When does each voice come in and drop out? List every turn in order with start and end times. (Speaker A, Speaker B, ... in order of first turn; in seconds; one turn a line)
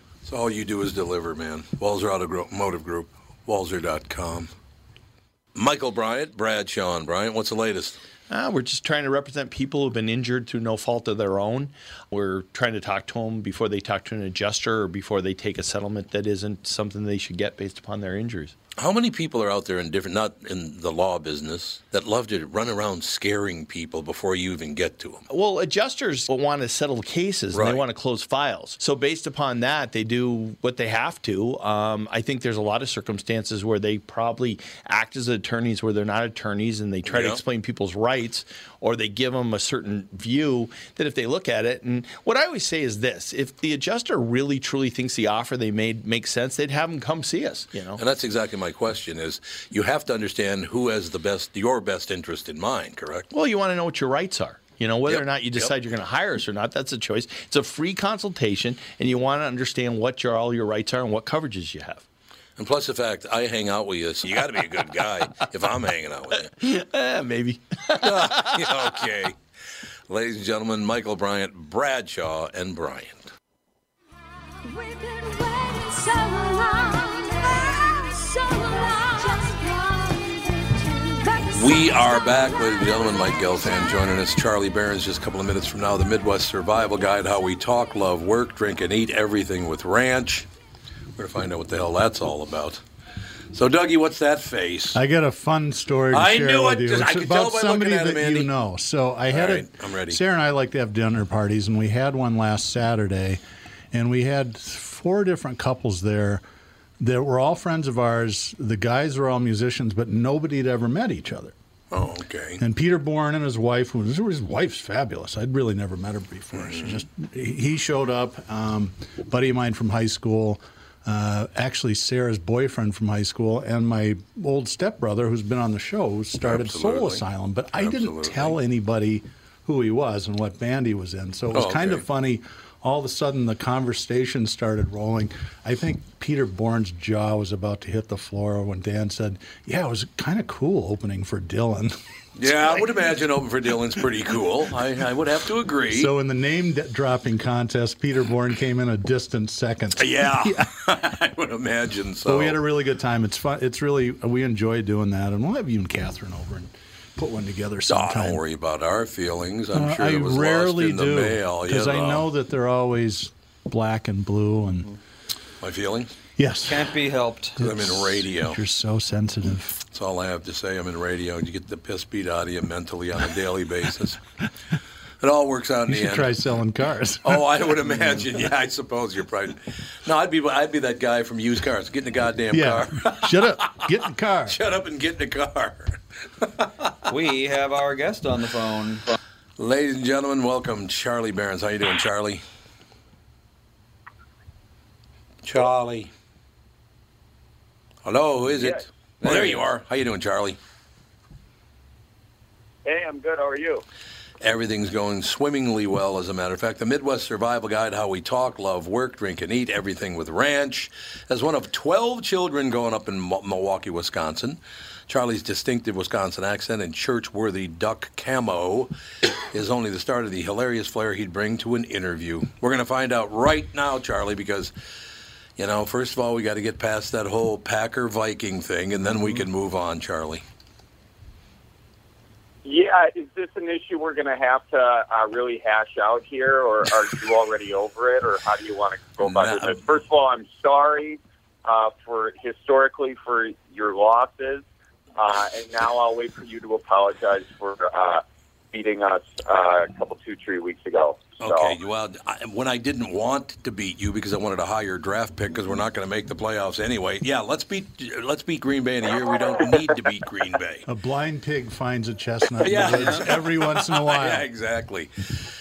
Speaker A: 0.2-4.5
Speaker A: 5.5-8.0
Speaker B: 8.3-18.5
Speaker A: 18.8-25.2
Speaker B: 25.3-48.0
Speaker A: 27.5-27.8
Speaker A: 37.0-37.4
Speaker A: 48.0-53.3
Speaker B: 53.3-62.0
Speaker A: 55.0-55.7
Speaker A: 62.6-66.5
Speaker B: 66.6-68.8
Speaker A: 68.0-69.3
Speaker A: 70.1-73.3
Speaker C: 74.6-83.0
Speaker A: 81.5-90.5
Speaker A: 91.2-92.8
Speaker A: 93.5-95.0
Speaker D: 94.9-103.4
Speaker A: 96.1-98.5
Speaker A: 99.3-100.2
Speaker D: 103.9-106.4
Speaker D: 107.0-111.5
Speaker A: 111.9-112.6
Speaker D: 112.6-141.9
Speaker A: 116.5-117.0
Speaker A: 126.4-127.2
Speaker A: 127.7-128.6
Speaker A: 131.5-132.0
Speaker A: 142.3-146.1
Speaker D: 145.9-150.7
Speaker A: 150.0-152.6
Speaker D: 152.2-158.4
Speaker A: 157.9-162.3
Speaker D: 159.7-164.9
Speaker A: 165.6-166.1
Speaker D: 166.4-166.9
Speaker E: 166.7-167.6
Speaker D: 167.6-169.8
Speaker A: 167.6-168.6
Speaker A: 169.9-174.2
Speaker A: 175.2-176.3
Speaker D: 175.9-177.4
Speaker A: 177.2-183.8
Speaker D: 182.5-184.6
Speaker A: 184.5-186.9
Speaker E: 187.1-189.0
Speaker A: 189.6-192.4
Speaker A: 195.4-196.1
Speaker A: 198.0-200.6
Speaker F: 198.6-198.8
Speaker E: 199.2-199.6
Speaker F: 202.8-203.8
Speaker A: 204.4-218.9
Speaker A: 219.5-224.7
Speaker A: 225.6-230.4
Speaker F: 232.6-251.7
Speaker A: 239.2-239.8
Speaker A: 251.4-260.8
Speaker D: 260.9-264.4
Speaker A: 262.6-265.1